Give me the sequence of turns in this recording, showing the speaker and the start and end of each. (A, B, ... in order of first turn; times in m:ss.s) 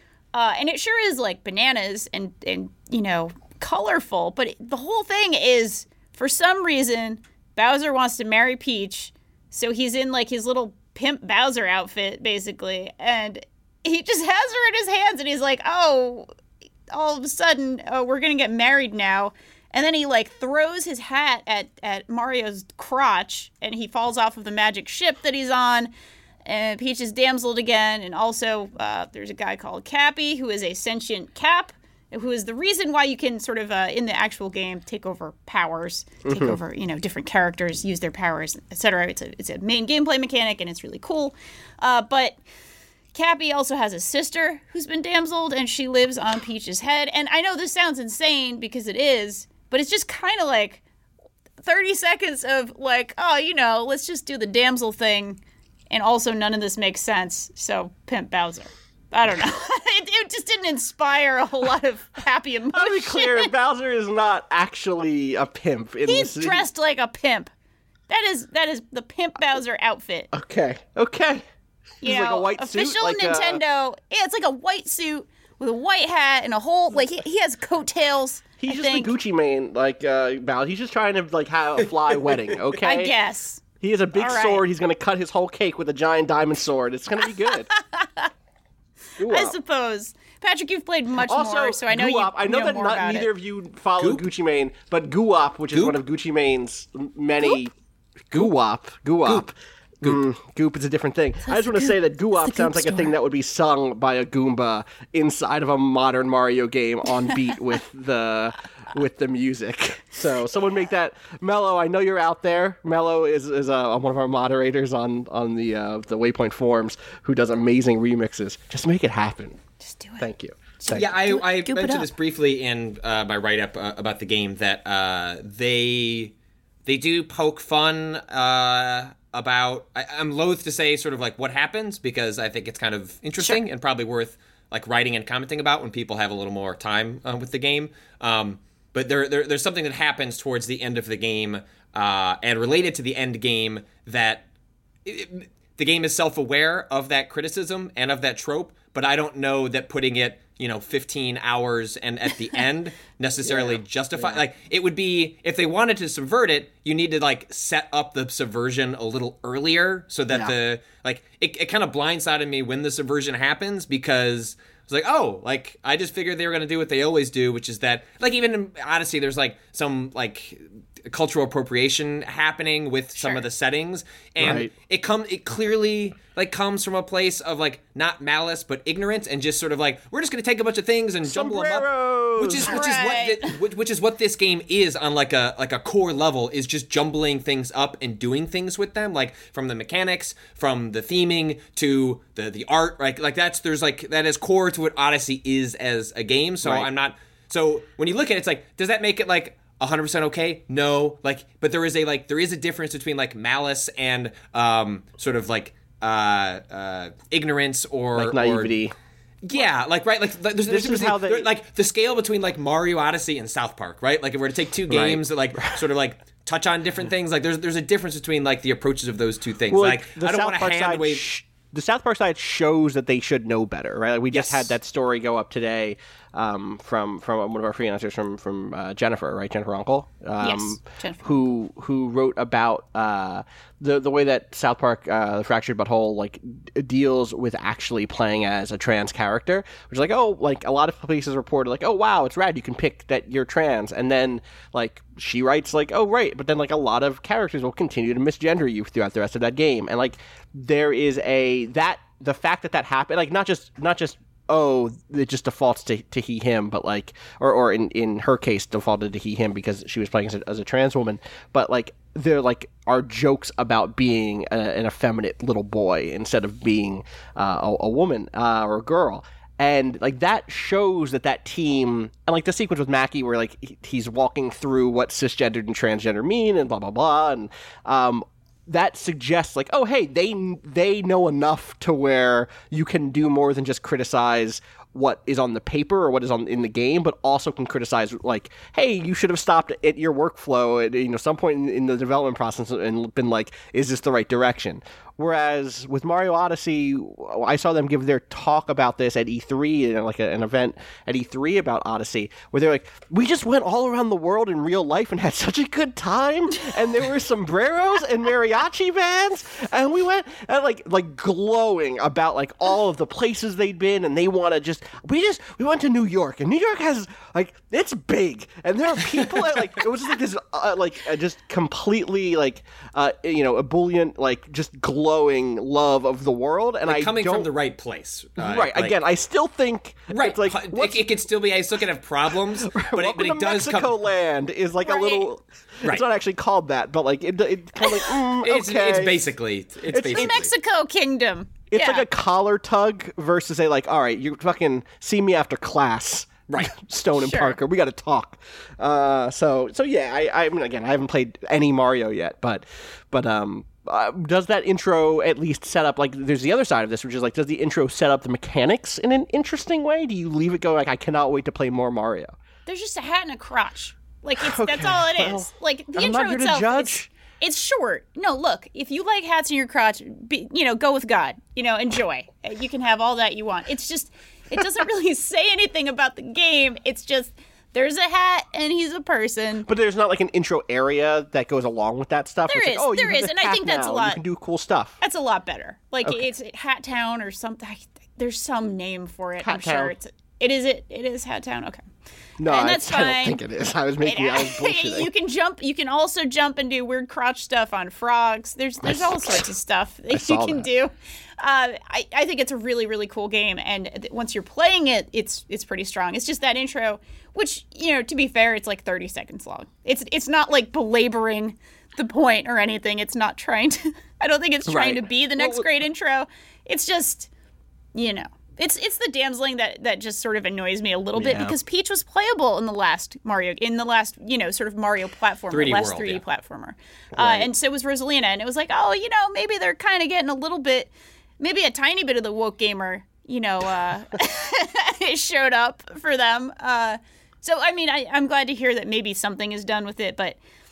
0:00.3-0:16.3 A
0:16.9-0:25.9 A
0:26.4-0:42.4 A
0:36.2-0:36.6 B
0:43.1-0:50.8 A
0:51.6-1:03.5 A
1:02.7-1:06.6 B
1:06.0-1:07.5 A
1:08.1-1:10.3 A
1:10.3-1:11.4 B
1:12.0-1:13.6 B
1:12.0-1:19.1 A
1:18.6-1:23.1 B
1:22.8-1:23.6 A
1:23.8-1:27.7 B
1:24.1-1:24.6 A
1:27.7-1:28.3 A
1:29.2-1:29.5 B
1:29.2-1:33.3 A
1:31.2-1:37.7 B
1:34.0-1:34.2 C
1:35.7-1:36.0 C
1:38.3-1:59.6 B
1:41.5-1:43.1 A
1:59.8-2:00.3 A
2:00.2-2:01.1 B
2:00.8-2:02.1 A
2:00.9-2:06.3 C
2:06.8-2:24.4 C
2:25.0-3:28.8 C
2:33.4-2:34.4 B
2:53.2-2:53.4 A
2:54.4-2:54.7 B
3:01.2-3:02.9 B
3:02.6-3:03.5 A
3:16.6-3:16.9 B
3:28.1-3:28.9 B
3:29.4-3:41.2 C
3:30.7-3:31.5 B
3:34.9-3:35.8 B
3:39.7-5:27.5 B
3:50.4-3:51.3 A
5:26.8-5:29.0 C
5:28.4-5:31.1 B
5:30.1-5:33.9 C
5:32.6-5:39.2 B
5:34.8-5:35.3 A
5:38.4-5:40.5 C
5:39.9-5:40.3 B
5:40.0-5:42.0 A
5:41.7-6:02.3 B
5:46.5-5:46.7 C
5:47.1-5:47.6 A
6:02.6-6:19.7 A
6:04.4-6:07.1 B
6:19.7-6:25.0 B
6:22.5-6:24.2 A
6:25.0-6:31.8 A
6:29.4-6:29.9 B
6:32.4-6:35.1 B
6:32.4-6:33.4 A
6:34.0-6:57.3 A
6:38.8-6:39.5 B
6:40.1-6:40.7 B
6:54.7-6:55.7 B
6:57.9-7:20.4 A
7:01.1-7:01.6 B
7:05.5-7:06.2 C
7:07.2-7:07.5 B